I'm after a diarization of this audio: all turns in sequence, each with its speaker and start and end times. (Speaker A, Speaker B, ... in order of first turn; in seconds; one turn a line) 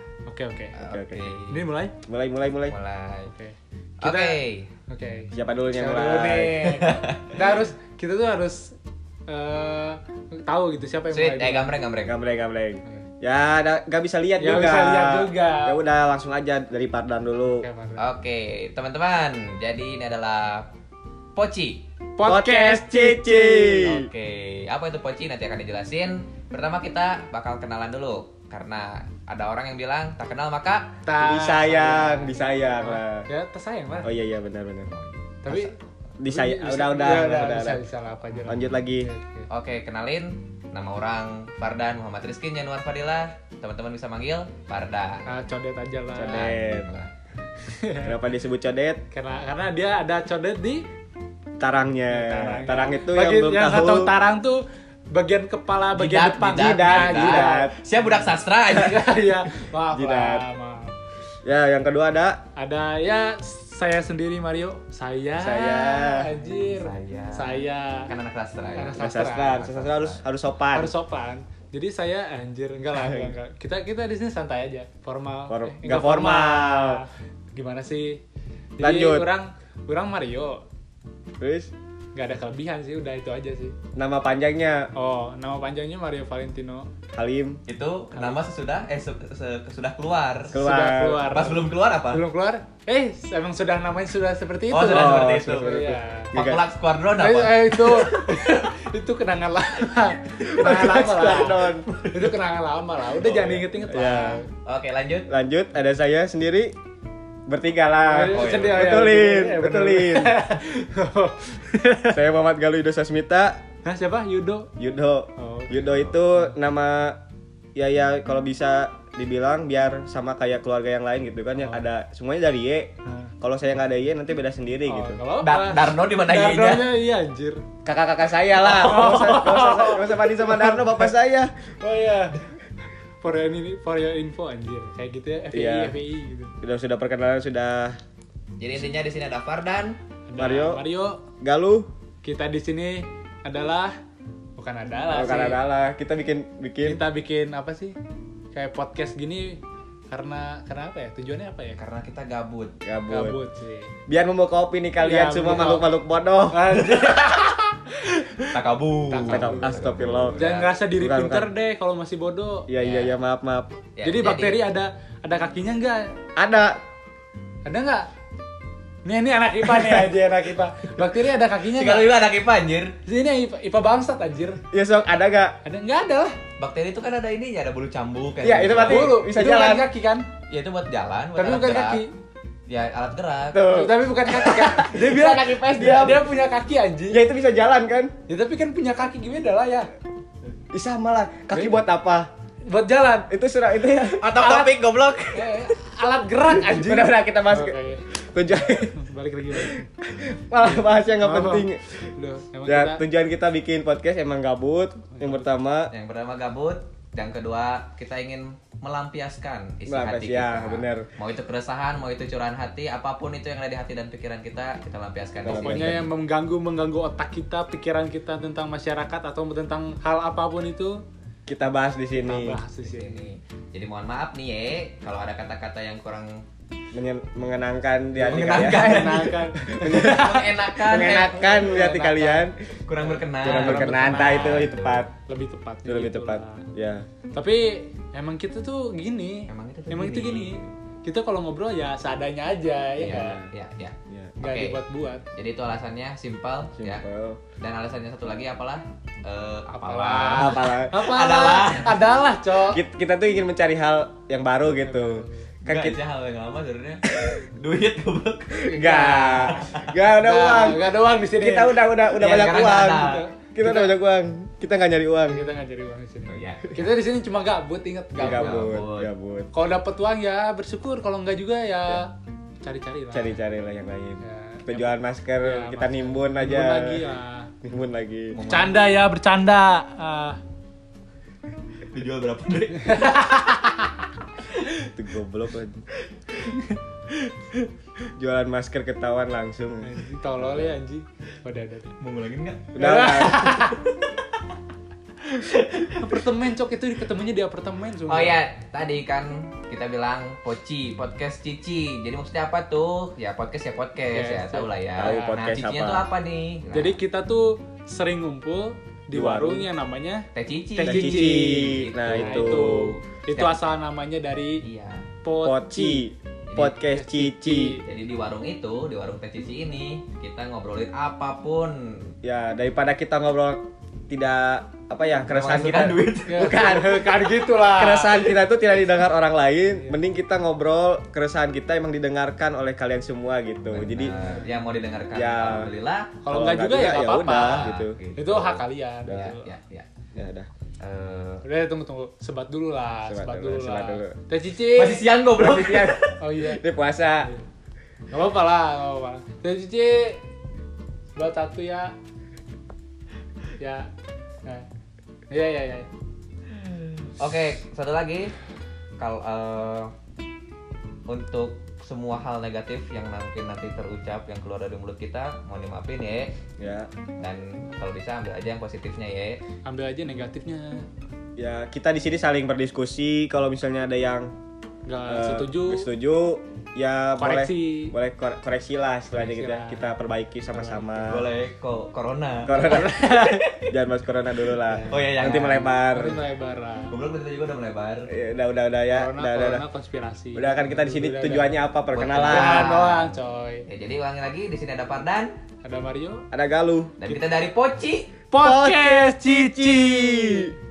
Speaker A: 0.2-0.8
Speaker B: 0.8-1.6
Speaker C: 0.8-1.3
Speaker A: 1.5-1.9
Speaker C: 2.1-2.8
Speaker B: 2.7-3.3
Speaker A: 3.2-5.3
Speaker B: 4.0-4.7
Speaker C: 5.3-6.8
Speaker B: 5.8-7.3
Speaker A: 6.6-8.8
Speaker A: 9.3-11.8
Speaker B: 11.1-12.2
Speaker C: 12.0-17.7
Speaker A: 14.4-15.8
Speaker A: 17.5-18.1
Speaker B: 18.0-20.7
Speaker B: 21.4-21.8
Speaker A: 22.2-23.9
Speaker C: 22.2-24.1
Speaker B: 23.9-31.0
Speaker A: 31.0-34.1
Speaker C: 31.2-33.3
Speaker C: 34.0-34.9
Speaker B: 34.9-35.7
Speaker A: 35.4-35.8
Speaker C: 36.2-37.8
Speaker A: 36.2-39.5
Speaker C: 38.5-39.1
Speaker B: 39.5-45.3
Speaker A: 45.2-46.6
Speaker C: 46.1-46.9
Speaker B: 46.3-47.1
Speaker A: 47.7-48.1
Speaker C: 48.0-49.0
Speaker A: 49.1-50.9
Speaker C: 51.6-54.1
Speaker A: 52.1-57.7
Speaker B: 56.0-59.0
Speaker C: 56.5-57.8
Speaker A: 58.7-60.9
Speaker C: 59.9-60.5
Speaker C: 61.4-62.4
Speaker A: 62.5-68.1
Speaker C: 65.4-66.3
Speaker B: 66.5-70.2
Speaker A: 68.8-69.6
Speaker C: 69.0-70.9
Speaker A: 70.7-78.2
Speaker C: 72.9-73.3
Speaker C: 75.5-77.0
Speaker A: 78.8-80.6
Speaker C: 78.8-79.3
Speaker C: 81.4-81.7
Speaker A: 82.2-83.8
Speaker C: 84.0-84.9
Speaker A: 84.9-86.9
Speaker C: 87.1-87.6
Speaker B: 87.7-90.6
Speaker A: 88.2-88.5
Speaker C: 90.5-91.4
Speaker A: 90.5-96.3
Speaker B: 91.3-92.2
Speaker B: 94.7-95.7
Speaker C: 94.8-96.6
Speaker B: 96.3-98.6
Speaker A: 97.2-104.5
Speaker C: 100.5-101.9
Speaker B: 101.9-102.3
Speaker C: 103.2-104.4
Speaker B: 104.7-105.3
Speaker C: 105.3-106.8
Speaker C: 107.5-110.3
Speaker A: 108.1-112.2
Speaker B: 108.3-108.8
Speaker C: 112.1-113.6
Speaker A: 113.8-114.7
Speaker C: 114.8-117.2
Speaker A: 115.4-115.9
Speaker C: 117.8-125.2
Speaker A: 121.6-121.8
Speaker A: 123.0-123.3
Speaker A: 124.8-127.6
Speaker B: 125.4-126.9
Speaker C: 127.8-131.5
Speaker A: 128.6-131.1
Speaker A: 131.8-132.4
Speaker A: 133.2-136.5
Speaker C: 135.5-135.9
Speaker C: 136.6-138.0
Speaker B: 138.6-140.0
Speaker A: 140.3-141.2
Speaker C: 140.3-140.8
Speaker C: 141.4-141.9
Speaker A: 142.2-144.0
Speaker A: 144.6-145.6
Speaker C: 145.1-147.0
Speaker A: 146.8-148.0
Speaker A: 148.5-151.8
Speaker B: 151.8-152.8
Speaker C: 152.8-153.4
Speaker A: 153.1-153.9
Speaker C: 154.1-157.0
Speaker A: 155.0-155.9
Speaker A: 156.5-158.6
Speaker B: 157.0-157.5
Speaker B: 158.4-160.7
Speaker A: 159.1-159.7
Speaker C: 159.2-161.5
Speaker A: 160.4-162.7
Speaker C: 162.7-163.7
Speaker B: 162.8-163.2
Speaker B: 164.0-164.7
Speaker A: 164.0-166.2
Speaker C: 166.3-166.8
Speaker A: 167.7-168.1
Speaker A: 169.0-172.1
Speaker B: 171.6-172.9
Speaker A: 173.0-174.6
Speaker C: 174.7-175.6
Speaker A: 175.6-176.4
Speaker B: 176.6-179.2
Speaker C: 178.4-179.9
Speaker A: 178.8-180.3
Speaker B: 180.5-182.0
Speaker A: 181.3-182.1
Speaker B: 182.7-183.7
Speaker C: 183.5-186.3
Speaker A: 183.7-187.2
Speaker C: 187.1-188.1
Speaker A: 188.3-189.9
Speaker C: 190.7-192.3
Speaker A: 191.5-191.8
Speaker A: 192.7-193.3
Speaker C: 193.3-194.4
Speaker B: 194.2-195.7
Speaker A: 194.4-194.7
Speaker A: 195.3-198.1
Speaker C: 196.5-199.0
Speaker A: 198.9-199.9
Speaker C: 199.5-201.9
Speaker A: 201.2-203.0
Speaker C: 202.7-205.9
Speaker A: 205.2-205.4
Speaker B: 205.9-216.0
Speaker C: 209.9-211.1
Speaker C: 215.4-216.1
Speaker A: 215.5-221.0
Speaker C: 221.5-222.6
Speaker A: 222.2-223.3
Speaker B: 222.8-226.4
Speaker C: 226.9-232.6
Speaker A: 228.2-232.5
Speaker B: 228.2-231.4
Speaker B: 232.8-235.1
Speaker A: 233.0-234.7
Speaker C: 233.4-235.1
Speaker A: 235.2-236.7
Speaker C: 235.8-237.1
Speaker A: 237.3-243.4
Speaker B: 239.5-240.7
Speaker B: 243.0-244.8
Speaker C: 243.1-243.5
Speaker A: 244.4-245.2
Speaker B: 245.3-247.0
Speaker C: 246.8-247.4
Speaker B: 247.6-252.1
Speaker A: 249.7-252.8
Speaker C: 250.2-251.0
Speaker C: 252.7-256.0
Speaker A: 254.8-255.4
Speaker B: 255.7-258.7
Speaker A: 258.7-259.6
Speaker C: 258.7-265.4
Speaker B: 259.4-259.9
Speaker A: 260.1-264.0
Speaker B: 262.1-263.2
Speaker A: 265.3-268.7
Speaker B: 266.2-266.9
Speaker B: 268.2-269.1
Speaker C: 268.2-269.5
Speaker A: 269.5-272.1
Speaker A: 272.6-273.4
Speaker C: 273.1-277.1
Speaker A: 274.2-277.5
Speaker C: 277.6-278.4
Speaker B: 278.3-278.9
Speaker A: 278.5-280.4
Speaker B: 281.8-283.4
Speaker A: 282.8-283.8
Speaker C: 284.9-285.8
Speaker A: 286.5-286.8
Speaker C: 288.2-290.1
Speaker A: 289.8-291.9
Speaker B: 292.0-292.8
Speaker C: 292.7-293.6
Speaker A: 292.8-293.8
Speaker B: 295.6-296.0
Speaker A: 295.8-298.4
Speaker B: 298.1-307.0
Speaker A: 304.1-305.4
Speaker C: 305.0-306.1
Speaker A: 306.7-314.6
Speaker C: 309.1-309.7
Speaker B: 310.3-312.7
Speaker C: 310.8-313.0
Speaker B: 313.3-313.6
Speaker B: 314.6-315.1
Speaker A: 315.2-316.1
Speaker C: 315.3-317.8
Speaker B: 316.5-316.8
Speaker A: 316.8-317.8
Speaker B: 317.8-322.1
Speaker C: 322.2-334.2
Speaker B: 325.3-327.0
Speaker A: 326.3-328.3
Speaker A: 329.7-330.0
Speaker B: 333.7-336.2
Speaker A: 334.2-334.4
Speaker C: 335.1-335.7
Speaker A: 336.2-339.5
Speaker C: 336.3-338.0
Speaker B: 337.3-339.9
Speaker C: 339.1-339.3
Speaker C: 340.1-340.5
Speaker B: 340.8-341.4
Speaker A: 341.4-345.1
Speaker C: 343.1-344.1
Speaker B: 344.6-346.2
Speaker C: 345.4-347.3
Speaker A: 346.2-346.6
Speaker A: 348.1-350.2
Speaker A: 351.1-351.9
Speaker A: 353.6-353.9
Speaker A: 355.3-355.9
Speaker B: 356.5-358.3
Speaker B: 359.0-359.9
Speaker B: 361.1-366.3
Speaker C: 366.6-366.9
Speaker B: 367.2-369.4
Speaker A: 369.6-370.9
Speaker C: 371.4-374.3
Speaker A: 374.9-375.9
Speaker C: 375.1-381.3
Speaker A: 377.2-377.9
Speaker A: 379.1-379.9
Speaker A: 380.5-381.1
Speaker B: 381.1-383.7
Speaker C: 382.4-386.2
Speaker A: 384.7-385.0
Speaker B: 384.9-385.7
Speaker A: 385.9-386.9
Speaker B: 386.9-388.1
Speaker C: 388.1-389.6
Speaker A: 388.9-391.5
Speaker C: 390.3-392.8
Speaker B: 391.9-393.1
Speaker A: 392.2-393.7
Speaker B: 393.7-395.3
Speaker A: 395.6-396.2
Speaker C: 396.3-396.9
Speaker B: 397.0-398.1
Speaker A: 398.3-400.5
Speaker C: 398.4-400.5